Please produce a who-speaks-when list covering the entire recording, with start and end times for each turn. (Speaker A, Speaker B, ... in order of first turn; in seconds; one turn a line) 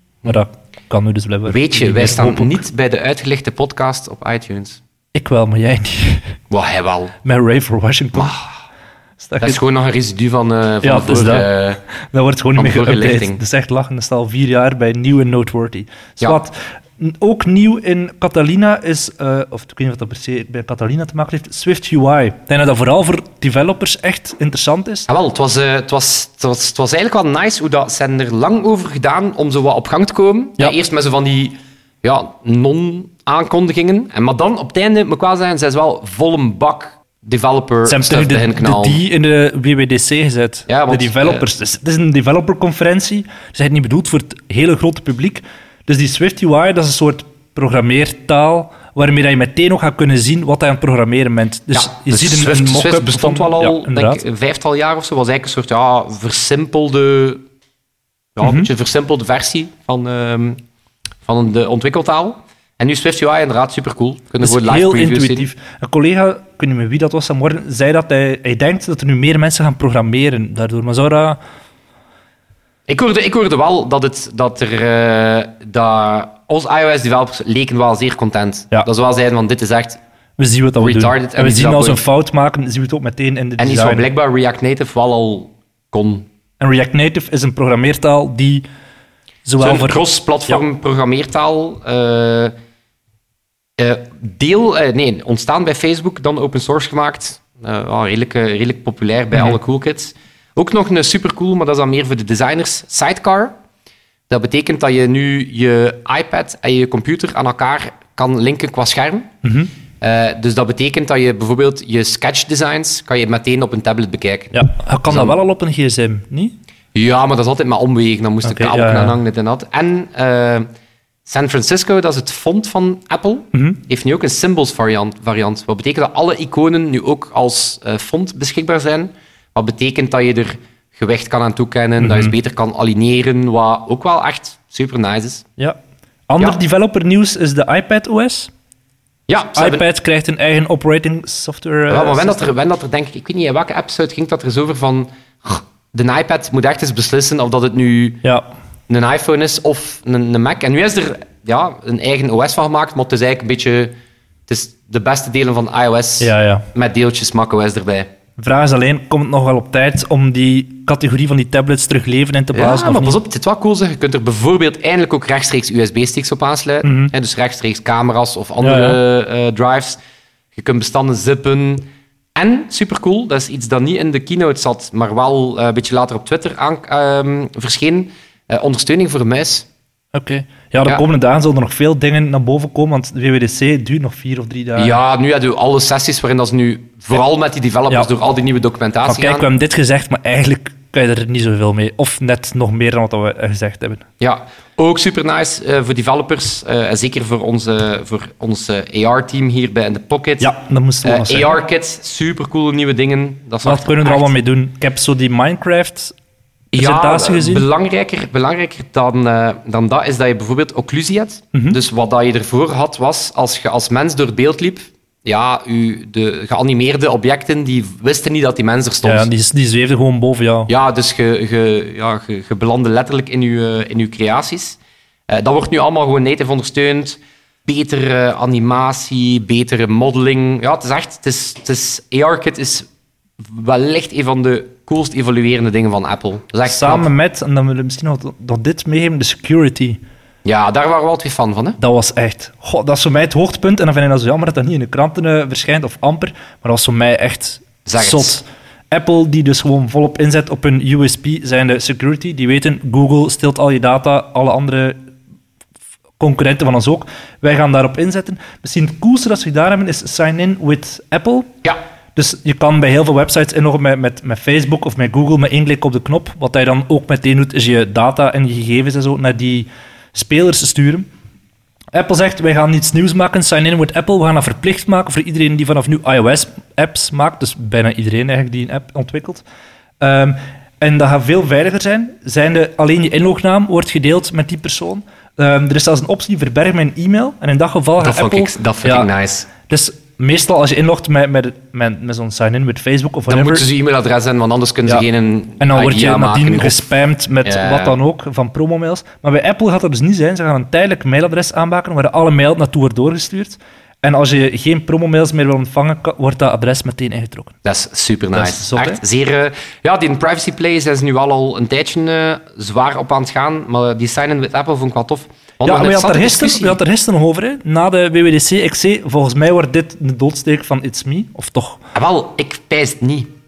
Speaker A: 0.2-2.6
Speaker B: 1.5-4.8
Speaker A: 5.1-6.3
Speaker B: 6.5-7.1
Speaker A: 7.2-8.4
Speaker B: 8.1-8.5
Speaker A: 9.2-9.6
Speaker B: 9.4-11.8
Speaker A: 10.8-11.5
Speaker A: 12.1-25.1
Speaker B: 12.6-13.4
Speaker B: 25.1-39.0
Speaker A: 37.8-54.2
Speaker B: 40.7-41.4
Speaker B: 51.7-57.4
Speaker B: 58.4-60.6
Speaker A: 58.4-58.7
Speaker B: 61.2-65.5
Speaker A: 64.4-71.4
Speaker B: 72.9-80.0
Speaker A: 80.4-84.0
Speaker B: 80.8-82.0
Speaker B: 83.6-86.3
Speaker A: 86.6-88.7
Speaker A: 89.4-90.6
Speaker B: 89.6-92.5
Speaker B: 93.8-103.5
Speaker B: 104.3-109.3
Speaker A: 109.4-109.7
Speaker B: 110.0-115.3
Speaker A: 114.5-116.5
Speaker B: 116.9-120.7
Speaker A: 118.4-119.2
Speaker B: 121.2-135.5
Speaker A: 123.5-123.8
Speaker A: 132.0-132.3
Speaker A: 136.3-138.5
Speaker B: 139.3-139.8
Speaker A: 139.5-142.5
Speaker B: 141.9-148.2
Speaker A: 148.2-148.5
Speaker B: 148.9-153.9
Speaker B: 154.5-158.1
Speaker A: 156.2-156.7
Speaker A: 158.4-163.2
Speaker B: 162.5-170.0
Speaker A: 166.8-167.1
Speaker A: 168.6-169.0
Speaker B: 170.5-179.7
Speaker A: 180.1-185.0
Speaker B: 184.8-189.5
Speaker A: 189.1-194.0
Speaker B: 194.2-204.3
Speaker A: 200.4-201.6
Speaker A: 203.6-206.1
Speaker A: 206.7-207.6
Speaker B: 206.7-219.3
Speaker A: 211.5-211.8
Speaker A: 219.0-220.7
Speaker B: 220.7-232.9
Speaker B: 233.4-237.1
Speaker A: 236.7-240.0
Speaker B: 240.4-241.8
Speaker A: 241.8-255.1
Speaker B: 247.8-248.4
Speaker A: 256.2-261.6
Speaker A: 262.1-271.1
Speaker A: 271.9-279.4
Speaker A: 280.0-289.1
Speaker B: 288.0-289.5
Speaker A: 289.6-293.7
Speaker B: 293.3-296.8
Speaker A: 295.6-307.5
Speaker B: 297.4-298.0
Speaker B: 307.6-316.8
Speaker A: 308.3-309.0
Speaker A: 315.6-321.8
Speaker B: 321.9-323.3